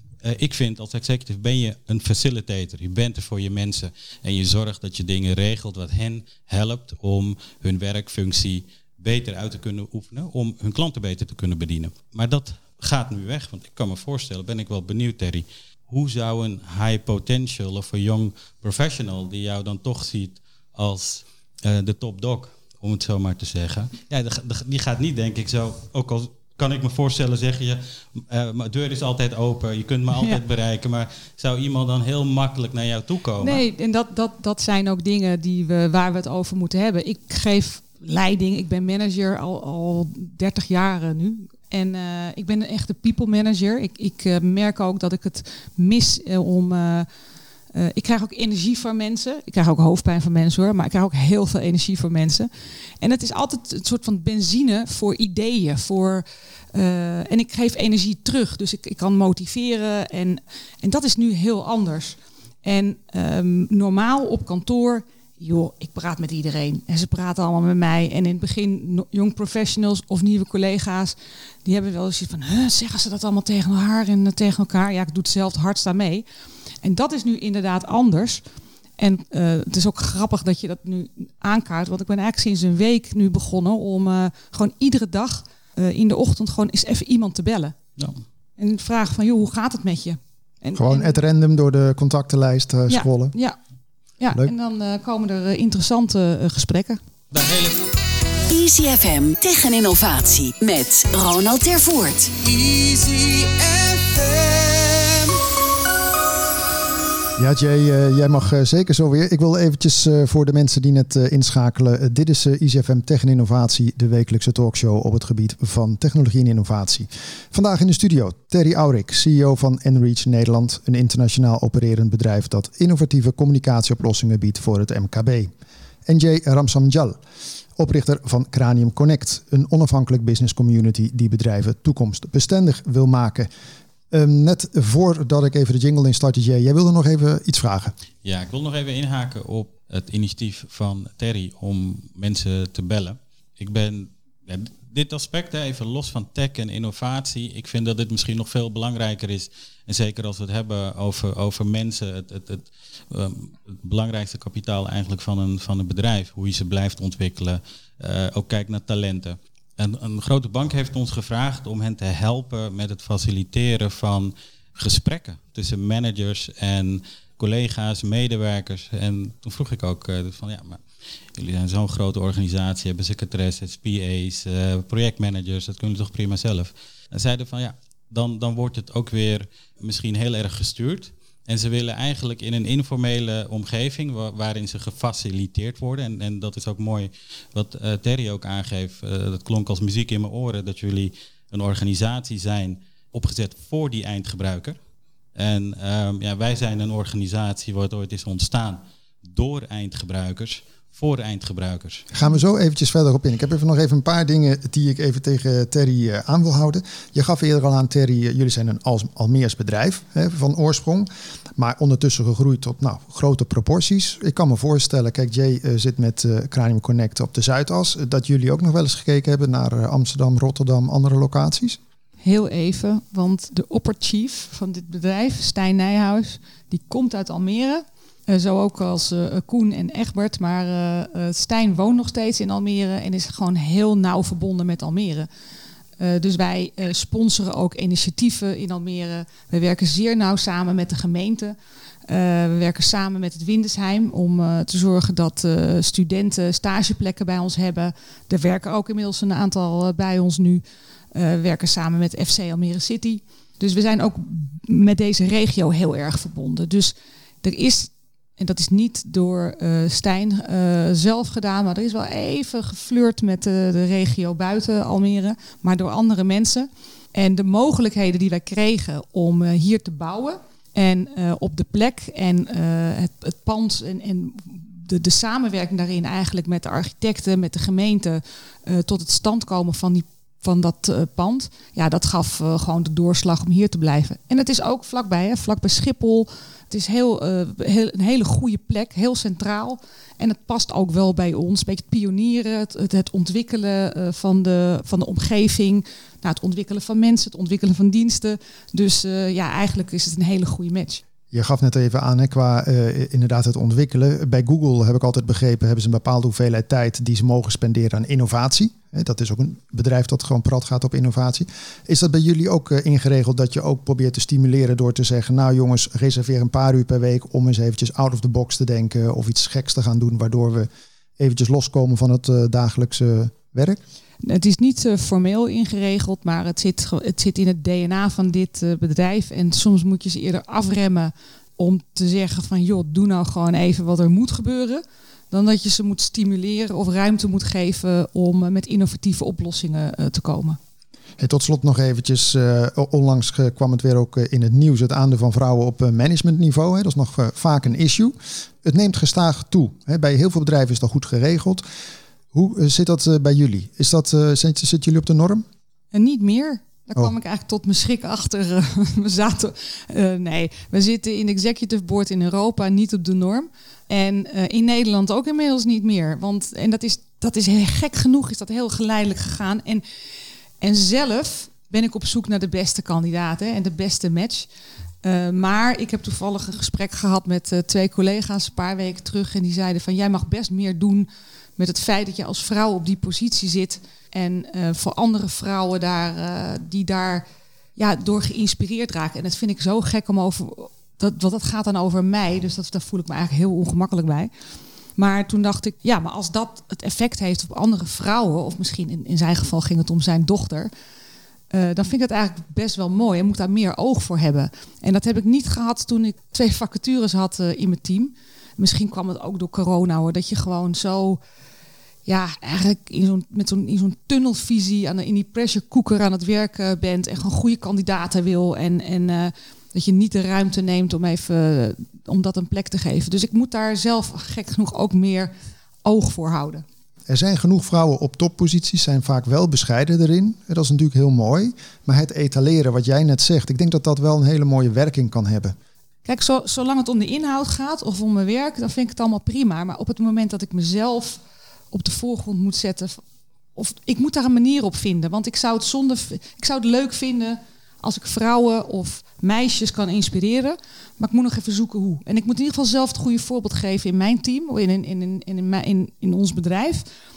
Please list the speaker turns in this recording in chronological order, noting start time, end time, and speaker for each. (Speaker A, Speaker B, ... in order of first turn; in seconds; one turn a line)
Speaker A: 0.2-33.6
Speaker B: 33.4-47.1
Speaker B: 47.7-52.5
Speaker B: 53.0-76.2
Speaker B: 76.8-78.4
Speaker B: 79.0-87.8
Speaker B: 88.6-91.2
Speaker C: 90.8-93.3
Speaker B: 92.9-93.6
Speaker B: 94.2-97.0
Speaker A: 97.3-97.9
Speaker D: 98.5-102.4
Speaker B: 102.7-104.3
Speaker C: 107.4-125.5
Speaker C: 126.1-127.2
Speaker C: 127.8-133.5
Speaker C: 134.1-137.9
Speaker A: 138.2-170.8
Speaker A: 171.3-194.8
Speaker A: 195.4-202.1
Speaker C: 202.1-221.8
Speaker B: 222.2-235.3
Speaker B: 236.0-241.6
Speaker B: 242.1-250.6
Speaker B: 251.1-301.0
Speaker C: 301.3-323.8
Speaker B: 324.2-340.6
Speaker C: 341.2-351.6
Speaker C: 352.3-355.5
Speaker B: 355.9-369.8
Speaker B: 370.6-374.5
Speaker B: 375.0-387.3
Speaker B: 387.8-394.3
Speaker B: 395.0-400.7
Speaker B: 401.5-411.2
Speaker B: 412.1-425.3
Speaker B: 425.8-426.6
Speaker C: 427.1-435.6
Speaker B: 436.1-441.2
Speaker B: 441.7-443.0
Speaker B: 443.6-456.9